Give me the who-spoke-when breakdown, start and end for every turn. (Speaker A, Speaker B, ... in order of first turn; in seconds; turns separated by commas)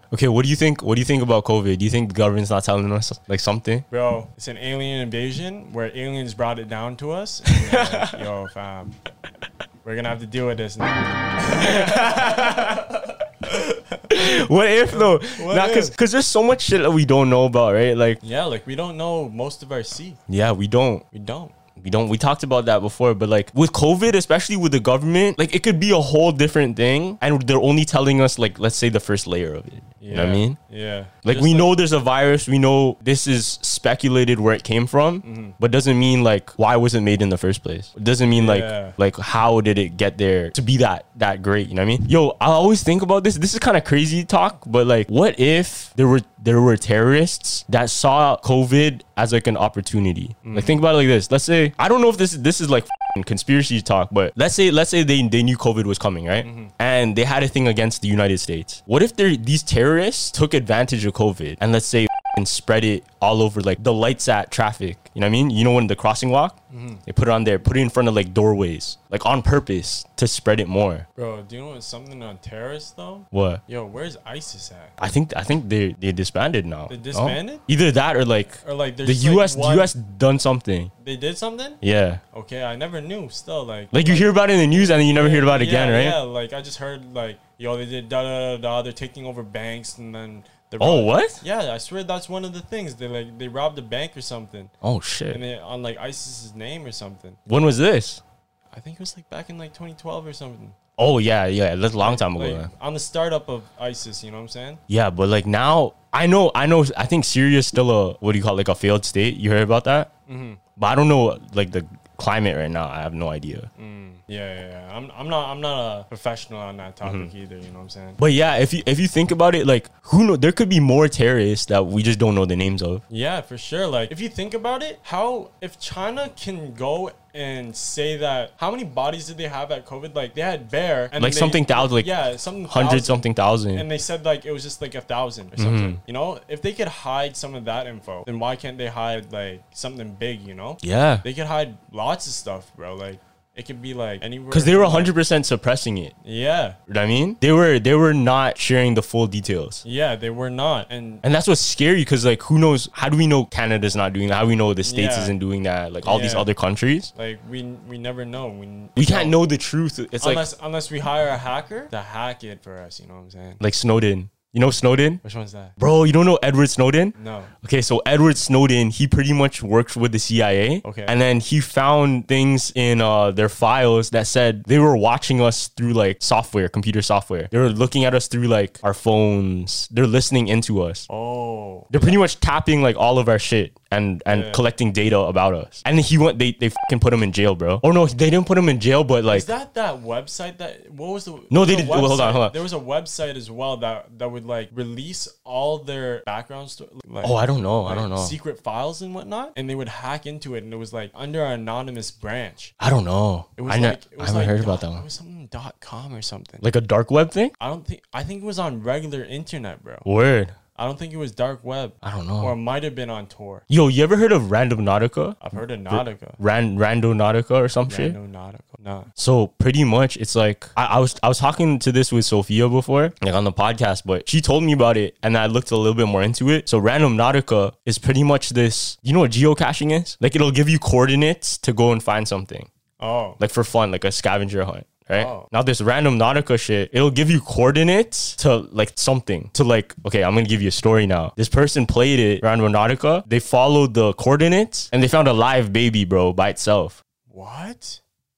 Speaker A: 0.1-3.9, Speaker B: 3.9-8.9, Speaker A: 7.5-8.1, Speaker B: 9.8-15.9, Speaker A: 11.6-12.8, Speaker A: 14.1-18.2, Speaker B: 18.2-20.2, Speaker A: 20.3-21.0, Speaker B: 21.1-21.5, Speaker A: 21.8-30.6, Speaker B: 30.0-31.7, Speaker A: 31.2-71.0, Speaker B: 35.2-35.5, Speaker B: 38.3-39.0, Speaker B: 50.4-50.8, Speaker B: 56.4-56.7, Speaker B: 66.7-67.0, Speaker B: 71.2-74.9, Speaker A: 73.3-73.6, Speaker A: 75.0-80.9, Speaker B: 76.9-77.6, Speaker B: 78.6-79.9, Speaker B: 81.0-81.8, Speaker A: 81.8-82.2, Speaker B: 82.3-94.7, Speaker A: 83.9-86.2, Speaker A: 90.8-91.4, Speaker A: 94.8-95.4, Speaker B: 95.3-97.4, Speaker A: 97.5-98.2, Speaker B: 98.7-100.8, Speaker A: 101.0-102.7, Speaker B: 102.0-104.8, Speaker A: 104.9-110.1, Speaker B: 110.3-110.6, Speaker A: 110.8-113.7, Speaker B: 113.8-118.2, Speaker A: 117.0-117.3, Speaker A: 118.2-123.0, Speaker B: 123.1-145.1, Speaker A: 131.2-132.1, Speaker A: 132.7-133.8, Speaker A: 135.6-136.0, Speaker A: 140.8-141.2, Speaker A: 144.5-146.1, Speaker B: 146.2-146.8, Speaker A: 146.9-149.8, Speaker B: 149.8-151.2, Speaker A: 151.2-157.1, Speaker B: 154.8-155.3, Speaker B: 156.0-156.5, Speaker B: 157.1-159.3, Speaker A: 159.0-160.4, Speaker B: 160.2-163.6, Speaker A: 163.6-165.2, Speaker B: 165.2-165.7, Speaker A: 165.8-181.1, Speaker B: 167.2-167.5, Speaker B: 170.8-171.1, Speaker B: 181.1-182.2, Speaker A: 181.9-189.5, Speaker B: 184.3-184.6, Speaker B: 189.3-202.7, Speaker A: 191.5-192.6, Speaker A: 197.2-198.3, Speaker A: 202.8-205.0, Speaker B: 203.6-206.6, Speaker A: 206.6-207.5, Speaker B: 207.6-210.1, Speaker A: 210.1-210.6, Speaker B: 210.7-213.7, Speaker A: 212.0-212.5, Speaker A: 213.7-218.2, Speaker B: 215.4-216.4, Speaker B: 217.9-219.1, Speaker A: 219.2-232.7, Speaker B: 233.0-233.4, Speaker A: 233.4-247.0, Speaker B: 235.1-235.5, Speaker B: 247.3-248.0